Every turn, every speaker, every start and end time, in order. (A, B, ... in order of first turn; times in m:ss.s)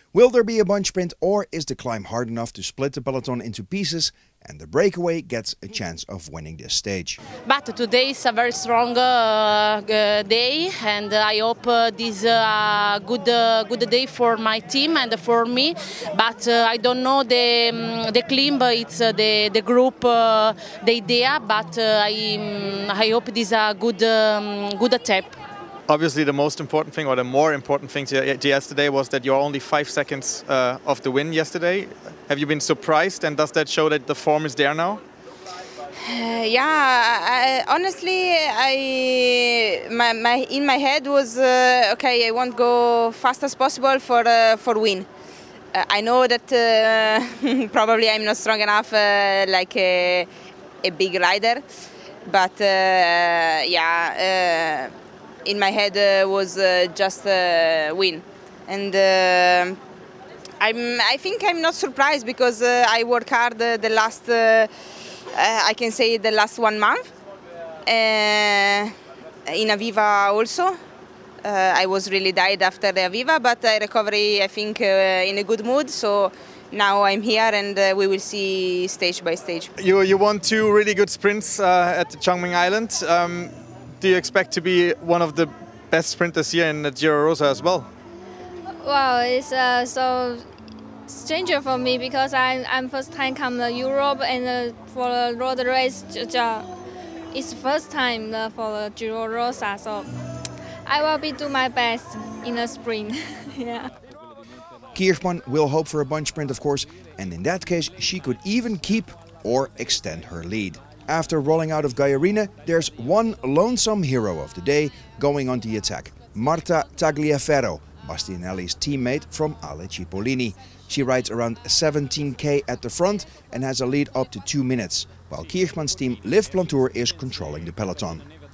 0:00.1-0:07.2 A
0:07.4-0:25.4 B
0:25.9-0:35.0 C
0:36.0-0:45.1 D
0:45.7-0:50.3 D
0:50.8-0:51.6 D
0:52.3-0:54.9 D
0:55.4-0:59.8 D
1:00.6-1:04.7 D
1:05.3-1:07.1 D
1:07.9-1:08.9 D
1:09.5-1:10.8 D
1:11.4-1:19.7 D
1:19.8-1:27.9 C
1:28.8-1:30.4 E
1:31.1-1:36.7 E
1:37.3-1:40.1 E
1:40.9-1:43.9 E
1:44.9-2:08.3 A